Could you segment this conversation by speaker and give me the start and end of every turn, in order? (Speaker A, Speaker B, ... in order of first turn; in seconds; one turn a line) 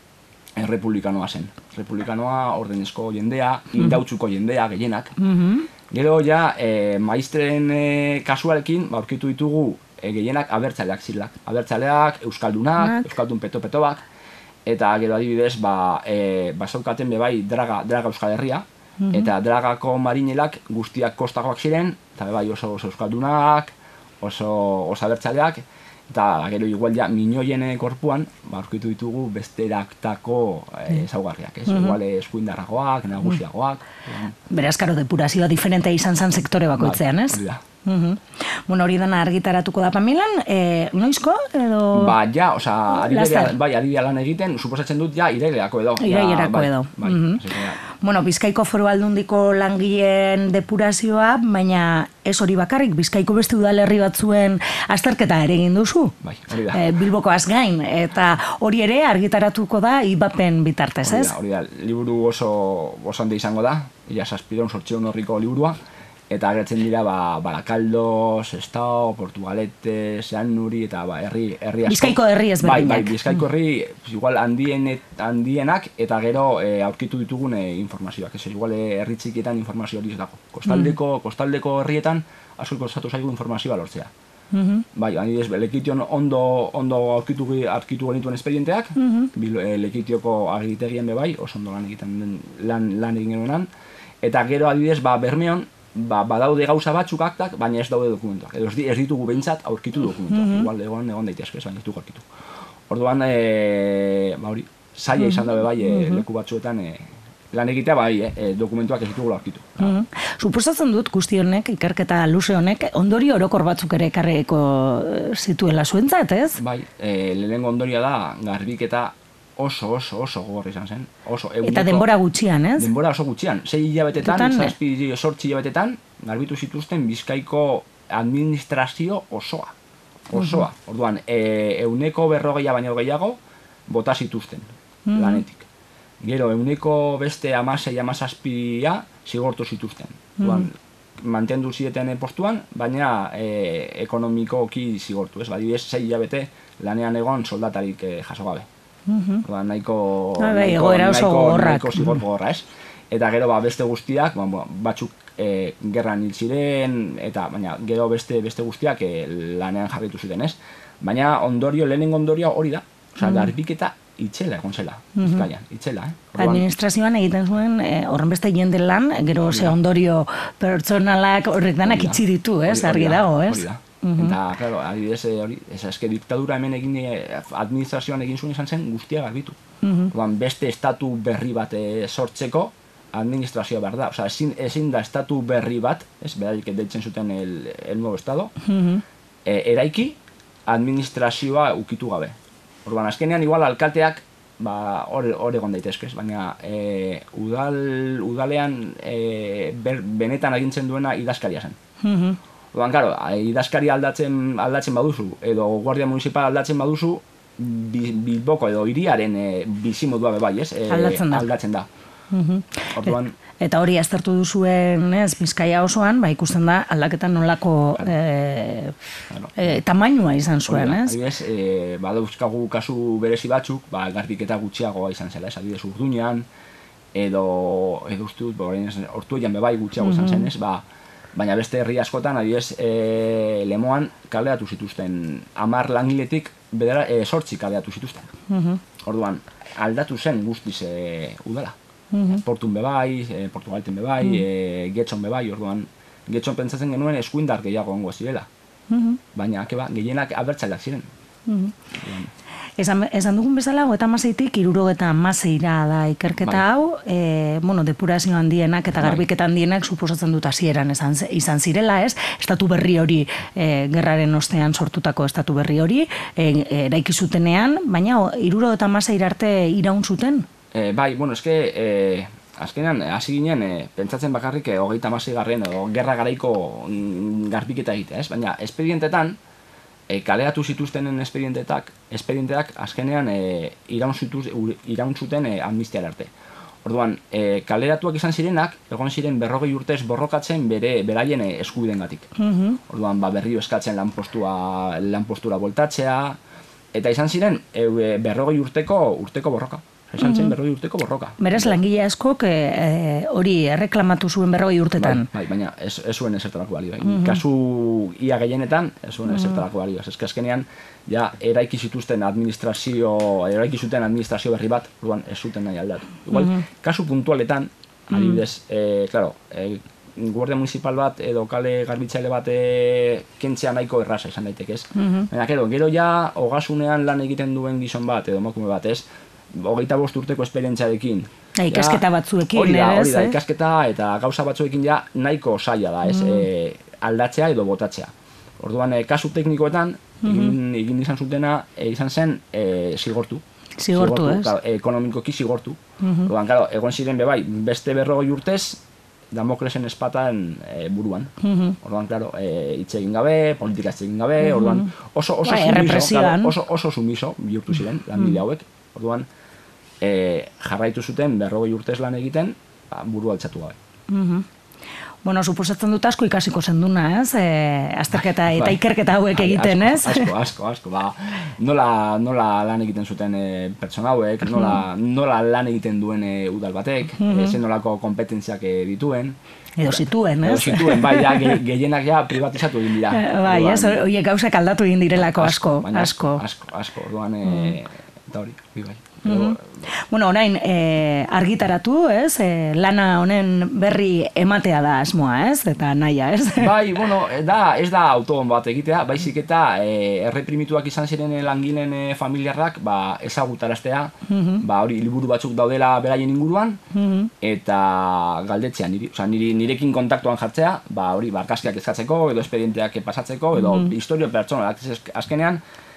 Speaker A: 0.6-5.1
Speaker B: 5.2-5.7
Speaker A: 5.9-14.0
Speaker B: 12.8-13.1
Speaker A: 14.7-34.3
Speaker B: 19.0-19.3
Speaker B: 31.7-31.9
Speaker B: 34.5-42.2
Speaker A: 36.8-37.6
Speaker A: 41.9-47.8
Speaker B: 42.9-43.5
Speaker B: 46.0-56.1
Speaker A: 56.2-56.9
Speaker B: 56.7-61.3
Speaker A: 61.0-65.8
Speaker A: 66.3-84.1
Speaker B: 71.9-73.3
Speaker B: 80.7-80.9
Speaker B: 84.5-84.8
Speaker A: 84.9-93.7
Speaker B: 89.0-89.3
Speaker A: 94.2-102.2
Speaker B: 100.3-100.7
Speaker A: 102.9-109.9
Speaker B: 105.2-106.2
Speaker B: 109.8-116.6
Speaker A: 116.6-122.1
Speaker B: 121.6-122.9
Speaker A: 122.8-129.7
Speaker B: 124.2-124.7
Speaker A: 130.3-135.7
Speaker B: 130.3-130.7
Speaker B: 135.1-135.4
Speaker A: 136.2-148.7
Speaker B: 140.4-140.7
Speaker B: 149.1-149.4
Speaker A: 149.4-166.7
Speaker B: 150.4-152.2
Speaker B: 163.2-163.5
Speaker B: 165.1-165.5
Speaker B: 166.3-174.4
Speaker A: 169.5-169.8
Speaker A: 171.8-179.6
Speaker B: 179.8-180.1
Speaker A: 180.1-188.5
Speaker B: 188.7-189.0
Speaker A: 189.4-201.8
Speaker B: 202.0-202.4
Speaker A: 202.7-211.9
Speaker B: 210.9-211.5
Speaker B: 212.3-219.0
Speaker A: 212.9-213.3
Speaker A: 219.3-219.7
Speaker B: 219.6-221.2
Speaker A: 220.7-226.5
Speaker A: 227.1-230.8
Speaker B: 230.0-230.5
Speaker A: 231.3-238.3
Speaker B: 238.5-238.8
Speaker A: 239.0-241.8
Speaker B: 242.1-242.4
Speaker A: 242.3-248.5
Speaker B: 248.9-249.2
Speaker A: 249.3-251.1
Speaker B: 251.5-251.8
Speaker A: 251.9-252.3
Speaker B: 252.8-270.5
Speaker A: 258.9-259.2
Speaker A: 270.7-279.4
Speaker A: 280.1-286.3
Speaker A: 286.8-292.3
Speaker B: 292.4-292.8
Speaker A: 292.9-296.4
Speaker A: 296.9-301.8
Speaker B: 300.2-300.5
Speaker B: 301.4-305.3
Speaker A: 305.0-359.3
Speaker B: 307.0-307.4
Speaker B: 309.3-309.6
Speaker B: 316.3-316.6
Speaker B: 318.1-318.4
Speaker B: 324.9-325.3
Speaker B: 331.6-333.4
Speaker B: 336.1-336.4
Speaker B: 340.2-340.6
Speaker B: 343.8-344.5
Speaker B: 346.0-346.3
Speaker B: 351.4-351.8
Speaker B: 354.4-354.9
Speaker B: 355.4-356.5
Speaker A: 360.0-363.8
Speaker B: 364.1-364.4
Speaker B: 365.2-370.3
Speaker A: 368.5-384.0
Speaker B: 374.5-374.8
Speaker B: 377.2-377.6
Speaker B: 379.8-381.6
Speaker B: 383.1-386.4
Speaker A: 385.3-389.7
Speaker B: 387.4-387.8
Speaker B: 389.2-396.7
Speaker A: 396.6-406.8
Speaker B: 404.3-404.6
Speaker B: 406.9-407.3
Speaker A: 407.4-415.6
Speaker B: 413.5-413.9